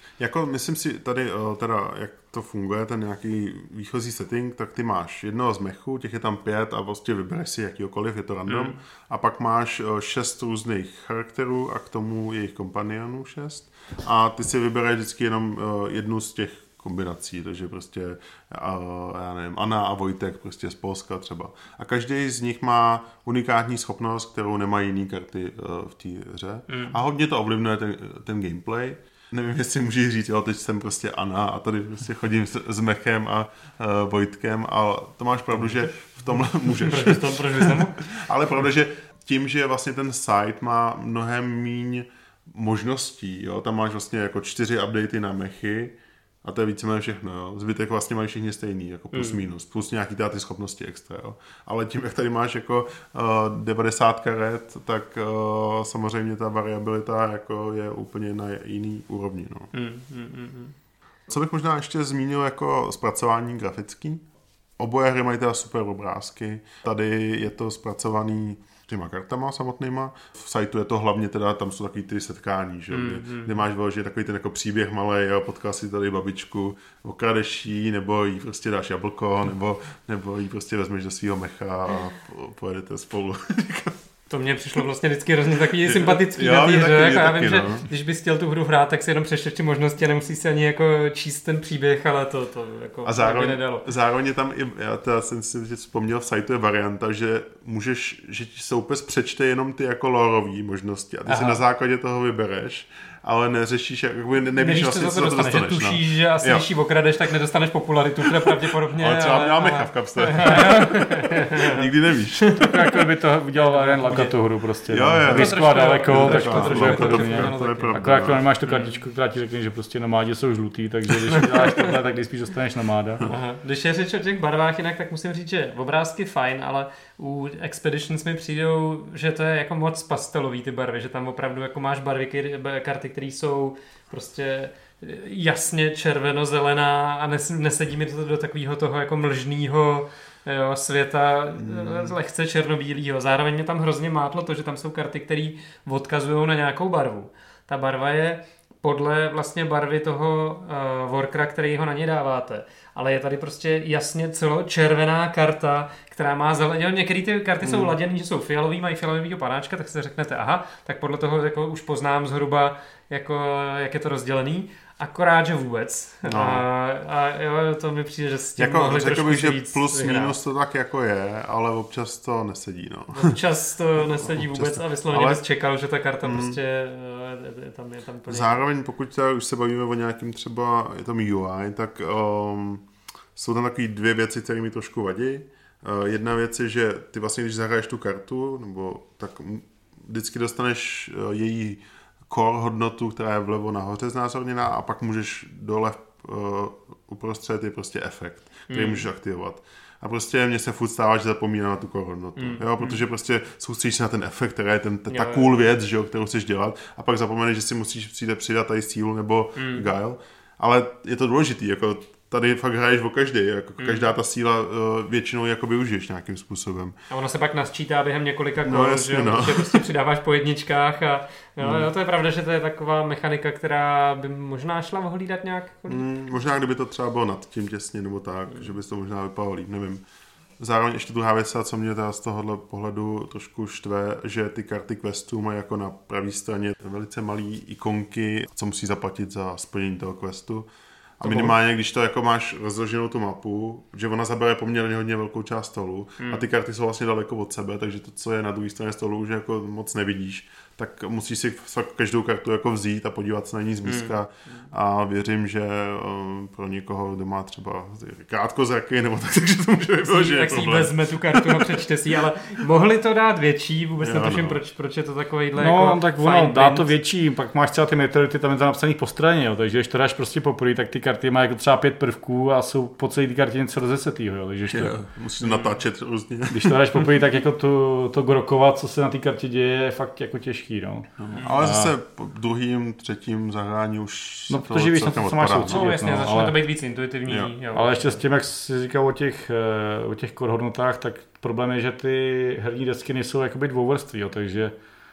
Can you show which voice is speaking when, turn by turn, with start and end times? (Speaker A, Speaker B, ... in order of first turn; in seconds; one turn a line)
Speaker A: 0.2-59.7
Speaker B: 8.5-8.8
Speaker B: 26.7-27.0
Speaker B: 36.6-38.0
Speaker B: 49.1-49.4
Speaker B: 59.7-60.8
Speaker A: 61.3-64.2
Speaker A: 64.8-84.0
Speaker B: 72.9-73.6
Speaker B: 84.3-93.9
Speaker A: 85.7-87.8
Speaker A: 93.0-106.7
Speaker B: 101.3-101.6
Speaker B: 104.6-111.8
Speaker A: 108.3-112.5
Speaker B: 112.5-113.0
Speaker C: 112.6-123.3
Speaker B: 113.6-114.3
Speaker A: 114.9-118.4
Speaker B: 115.3-118.0
Speaker B: 118.7-118.9
Speaker B: 123.2-170.4
Speaker A: 141.6-142.2
Speaker A: 157.6-158.0
Speaker A: 166.2-166.6
Speaker A: 168.6-173.4
Speaker B: 173.1-178.7
Speaker A: 174.0-175.4
Speaker A: 176.2-176.6
Speaker A: 178.3-217.0
Speaker B: 198.7-199.1
Speaker B: 202.4-203.0
Speaker B: 205.1-205.5
Speaker B: 209.6-209.9
Speaker B: 213.8-214.1
Speaker B: 217.1-226.1
Speaker A: 218.7-219.9
Speaker A: 221.6-221.9
Speaker A: 225.9-230.0
Speaker A: 230.6-240.7
Speaker A: 241.2-261.8
Speaker B: 241.2-241.6
Speaker B: 246.2-246.5
Speaker B: 253.8-254.7
Speaker B: 260.0-266.9
Speaker A: 264.0-264.6
Speaker C: 265.6-275.0
Speaker A: 274.7-277.1
Speaker B: 275.4-275.8
Speaker C: 276.5-281.9
Speaker A: 281.2-285.9
Speaker C: 284.5-286.6
Speaker B: 285.7-288.2
Speaker A: 287.3-287.5
Speaker C: 287.7-294.7